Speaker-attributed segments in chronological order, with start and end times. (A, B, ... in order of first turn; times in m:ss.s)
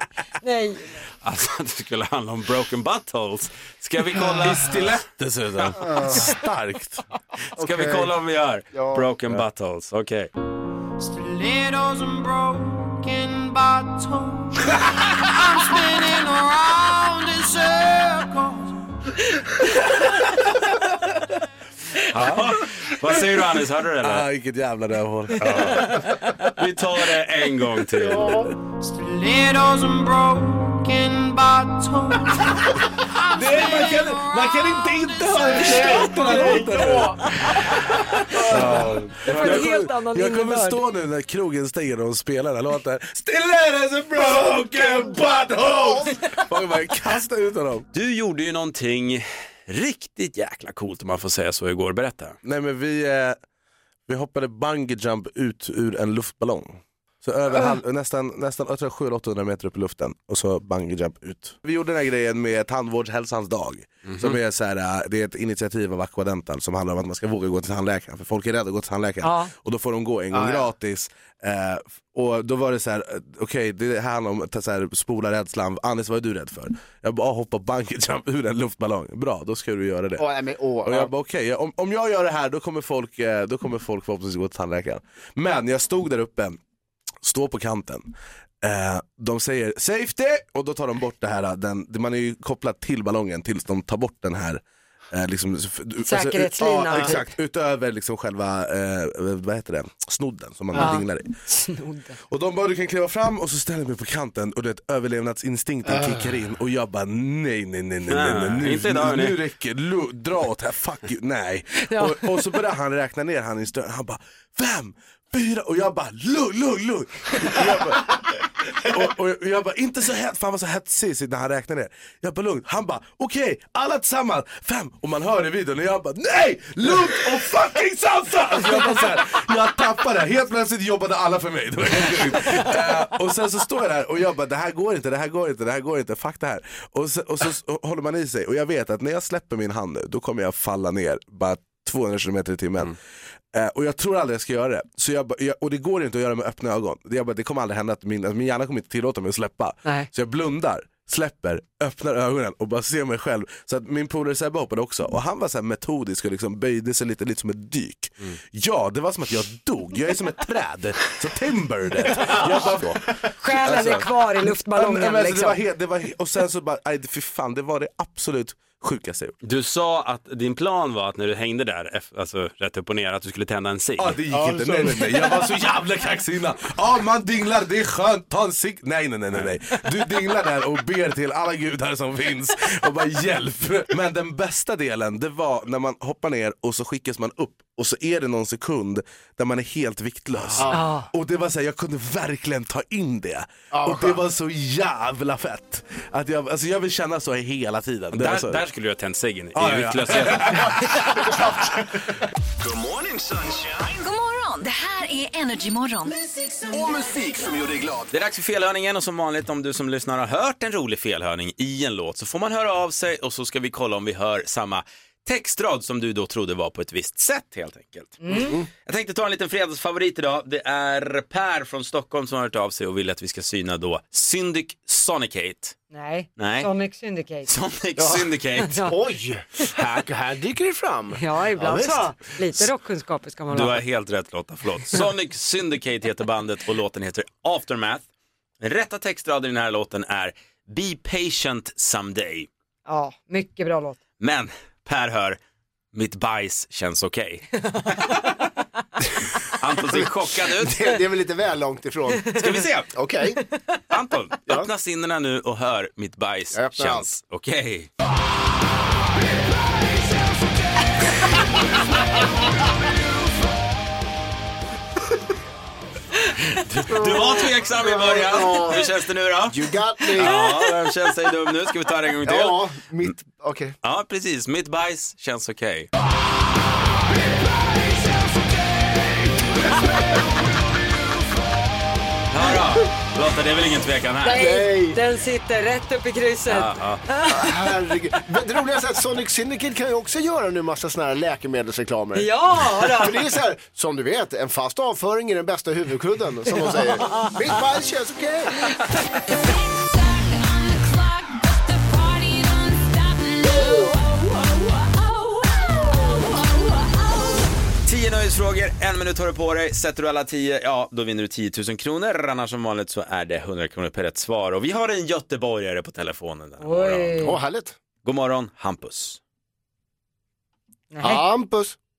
0:00.4-0:01.0 A
0:01.2-0:05.0 B
0:04.4-0:07.0 C
0:05.8-0:06.2 D
0:07.6-0:08.1 D
0:07.6-0:10.3 B
0:08.7-0:09.0 D
0:11.0-0:18.8 E
0:22.1-0:24.3 B
0:22.1-0:22.6 C
0:24.0-0:26.3 C
0:25.4-0:28.4 B
0:28.8-0:37.2 E
0:33.3-0:47.9 C
0:35.6-0:37.0 D
0:39.2-0:40.8 A
0:47.9-0:52.4 B
0:52.4-0:53.4 C
0:54.1-1:20.2 C
1:04.1-1:04.4 B
1:09.2-1:09.5 A
1:10.3-1:10.7 D
1:20.2-1:21.1 D
1:20.8-1:26.6 C
1:27.2-1:41.3 C
1:36.0-1:37.3 A
1:40.8-1:42.2 A
1:42.3-2:23.0 C
1:45.9-1:46.2 D
1:48.1-1:49.4 B
1:51.8-1:52.4 A
2:23.5-2:49.4 C
2:43.4-2:45.6 A
2:49.4-2:54.2 B
2:54.0-3:18.6 C
2:54.3-2:55.1 D
3:10.6-3:10.9 D
3:10.7-3:11.1 A
3:13.7-3:14.2 D
3:18.1-3:20.7 B
3:19.5-3:21.2 C
3:20.9-3:22.1 D
3:22.6-3:23.8 F
3:23.8-3:26.6 G
3:26.7-3:28.1 F
3:28.1-3:45.8 B
3:38.2-3:38.6 A
3:38.3-3:38.6 D
3:45.9-3:47.5 A
3:46.4-3:46.7 B
3:47.5-3:48.8 B
3:48.0-3:48.3 D
3:48.6-3:48.9 A
3:48.8-3:52.1 D
3:51.2-3:53.8 A
3:53.5-3:58.0 B
3:58.6-4:02.5 B
4:02.8-4:04.0 A
4:04.2-4:05.4 B
4:05.9-4:07.5 B
4:07.7-4:08.2 A
4:09.6-4:11.0 B
4:09.9-4:13.4 D
4:12.3-4:12.9 B
4:13.9-4:17.9 B
4:16.5-4:17.0 D
4:26.6-4:33.1 B
4:26.9-4:28.9 D
4:29.5-4:30.5 D
4:30.2-4:30.7 A
4:32.2-4:33.7 D
4:33.8-4:35.9 B
4:42.3-4:44.5 B
4:44.2-4:47.5 A
4:44.3-4:45.0 D
4:46.5-4:47.0 B
4:47.3-4:58.8 D
4:52.1-4:53.2 A
4:56.6-4:57.3 A
5:00.1-5:01.4 G
5:02.0-5:02.4 G
5:07.8-5:17.3 B
5:16.6-5:17.4 A
5:17.2-5:17.8 D
5:18.0-5:19.2 B
5:20.9-5:21.2 A
5:21.0-5:21.8 D